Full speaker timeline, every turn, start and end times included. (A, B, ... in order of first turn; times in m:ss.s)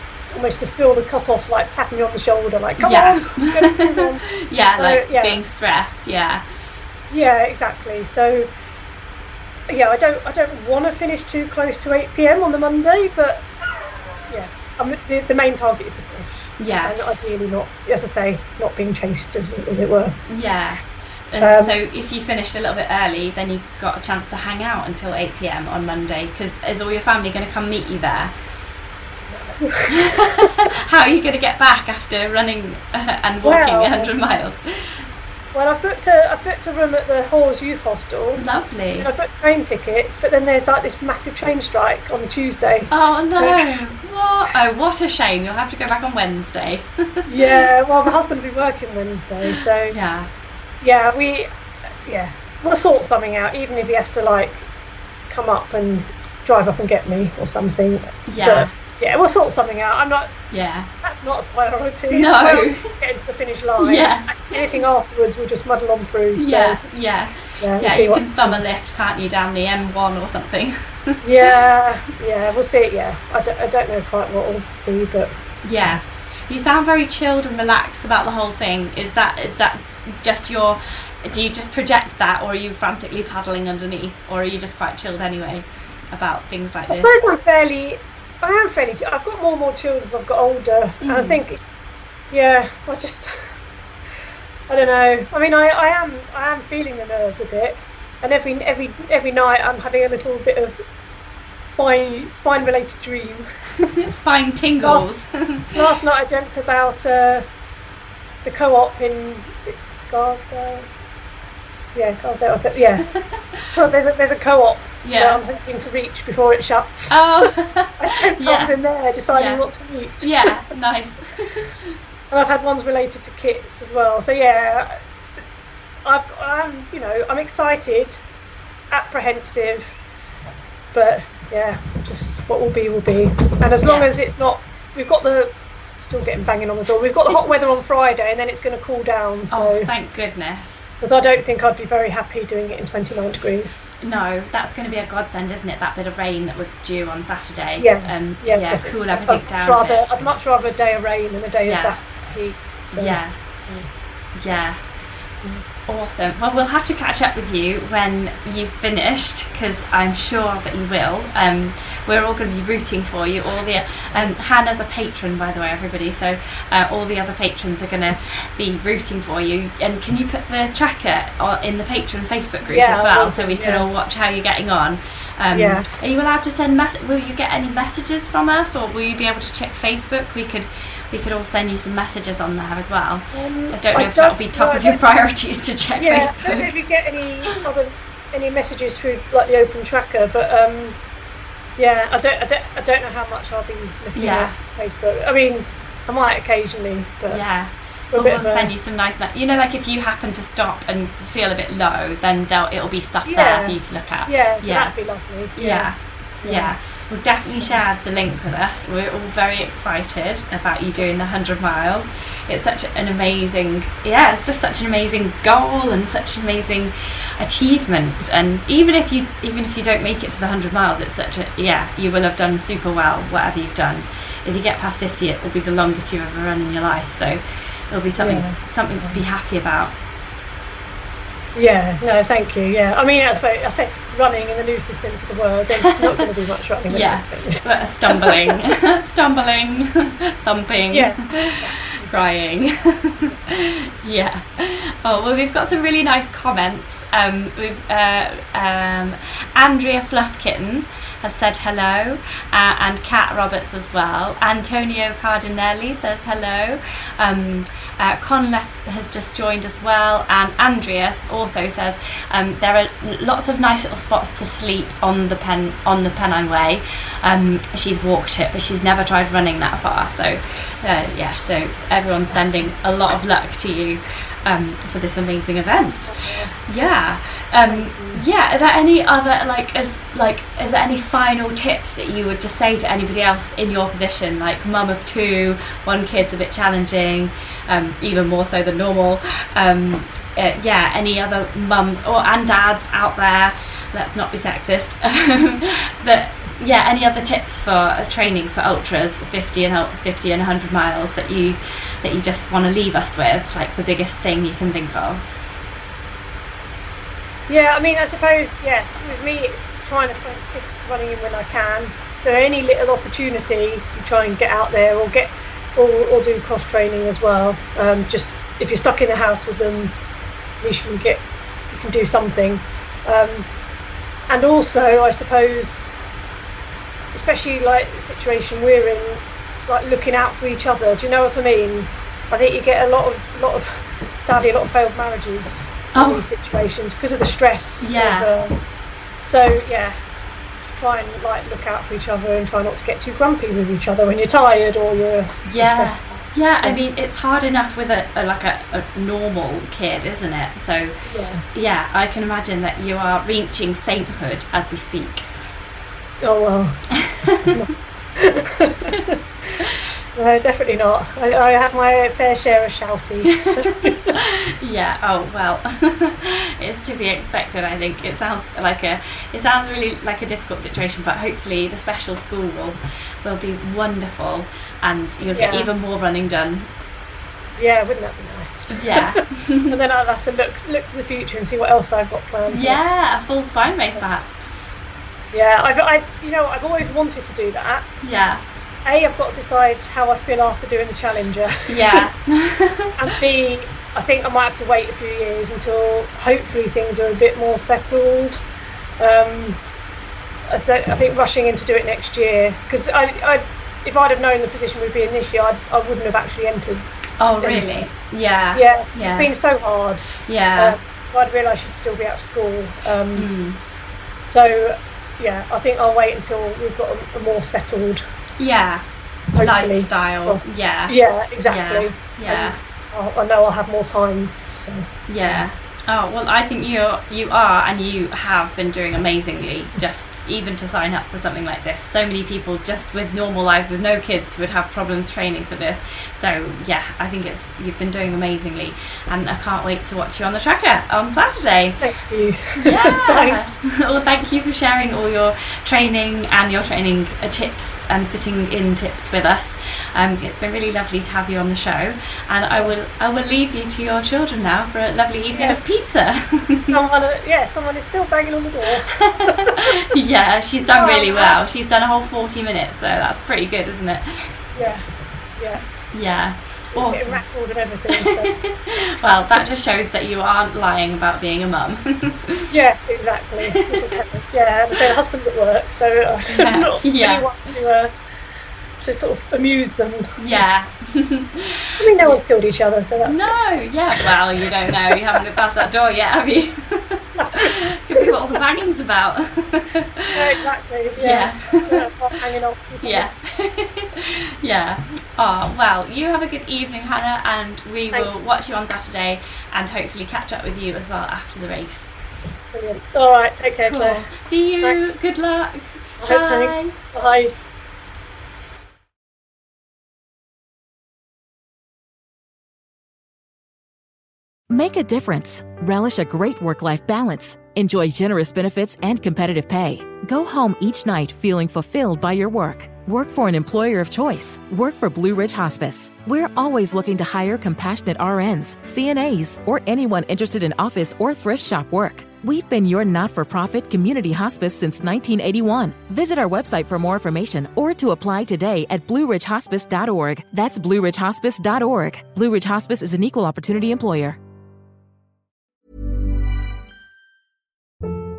0:00.3-0:05.4 A
0:02.8-0:06.4 B
0:07.1-0:08.5 A
0:09.7-0:13.5 A
0:14.3-0:20.2 A
0:16.6-0:16.9 B
0:20.3-0:28.3 B
0:21.4-0:21.8 A
0:29.3-0:30.5 A
0:29.9-0:35.0 B
0:33.4-0:34.1 A
0:35.5-0:38.4 A
0:38.4-0:39.1 B
0:39.0-0:44.0 A
0:42.9-0:47.6 B
0:47.3-0:50.0 A
0:49.5-0:50.3 B
0:50.8-0:51.5 A
0:52.1-0:54.7 A
0:55.3-1:00.3 A
0:58.3-0:58.7 B
1:00.5-1:00.9 B
1:01.0-1:06.8 A
1:02.1-1:02.9 B
1:03.8-1:04.6 B
1:06.4-1:11.5 B
1:07.6-1:08.7 A
1:11.2-1:15.3 A
1:15.6-1:27.1 B
1:26.9-1:31.6 A
1:31.0-1:31.4 B
1:32.3-1:33.5 A
1:34.7-1:40.8 A
1:41.6-1:43.4 A
1:43.9-1:45.8 B
1:44.8-1:45.1 A
1:45.7-1:47.4 A
1:48.4-1:50.9 A
1:52.0-1:53.1 A
1:53.2-1:53.6 B
1:53.7-2:00.5 A
1:55.0-1:55.4 B
1:57.1-1:58.8 B
1:59.3-1:59.6 B
2:00.2-2:01.8 B
2:02.3-2:05.4 A
2:06.0-2:08.2 A
2:08.9-2:10.0 A
2:10.9-2:19.9 A
2:13.8-2:14.1 B
2:19.5-2:20.9 B
2:21.0-2:23.8 A
2:24.0-2:30.3 B
2:27.8-2:33.9 A
2:31.6-2:32.0 B
2:32.9-2:33.4 B
2:34.4-2:34.8 B
2:35.9-3:06.7 B
2:44.1-2:44.5 A
2:52.7-2:53.9 A
2:55.5-2:55.8 A
3:03.3-3:05.0 A
3:06.0-3:11.0 A
3:11.8-3:17.4 A
3:14.2-3:14.6 B
3:17.3-3:24.9 B
3:18.1-3:18.7 A
3:23.2-3:25.9 A
3:25.6-3:50.0 B
3:26.4-3:26.8 A
3:48.2-3:49.2 A
3:51.6-3:58.6 A
3:55.9-3:56.2 B
3:56.9-4:36.1 B
4:00.9-4:02.0 A
4:36.1-4:36.6 A
4:36.7-5:05.2 B
4:37.7-4:38.2 A
5:07.5-5:20.0 A
5:20.6-5:23.5 A
5:24.3-5:25.9 A
5:27.1-5:38.6 A
5:36.0-5:36.2 B
5:37.8-5:38.3 B
5:39.2-5:40.0 A
5:40.6-5:46.8 A
5:45.5-5:51.0 B
5:51.1-5:51.4 A
5:51.5-5:55.3 B
5:56.2-6:04.2 A
5:57.0-5:57.6 B
5:58.9-5:59.7 B
6:03.3-6:16.7 B
6:15.3-6:15.7 A
6:17.6-6:23.0 A
6:18.7-6:19.8 B
6:22.5-6:24.4 B
6:25.3-6:27.9 A
6:28.0-6:28.4 B
6:28.9-6:32.1 A
6:31.7-6:33.0 B
6:33.0-6:38.4 A
6:39.0-6:39.6 A
6:40.5-6:46.9 A
6:47.2-6:49.3 B
6:47.4-6:47.9 A
6:48.5-6:53.3 A
6:50.2-6:50.8 B
6:53.2-6:53.6 B
6:54.2-6:58.0 A
6:58.4-6:58.9 B
6:59.3-7:05.5 A
6:59.4-7:02.6 B
7:05.1-7:21.8 B
7:21.8-7:23.5 A
7:22.6-7:36.8 B
7:32.6-7:32.9 A
7:35.3-7:35.9 A
7:36.6-7:39.8 A
7:39.1-7:44.4 B
7:40.7-7:41.4 A
7:44.6-7:44.8 A
7:45.4-7:45.6 A
7:45.9-7:47.2 B
7:46.7-7:48.3 A
7:48.0-7:52.5 B
7:52.5-7:57.9 A
7:56.3-7:57.3 B
7:58.8-8:00.2 A
8:00.2-8:02.2 B
8:01.8-8:04.2 A
8:03.1-8:10.3 B
8:07.2-8:08.1 A
8:10.1-8:13.1 A
8:11.0-8:11.8 B
8:12.8-8:21.9 B
8:17.9-8:18.2 A
8:22.5-8:24.0 A
8:23.6-8:26.8 B
8:24.6-8:25.0 A
8:26.0-8:27.3 A
8:34.5-9:04.2 C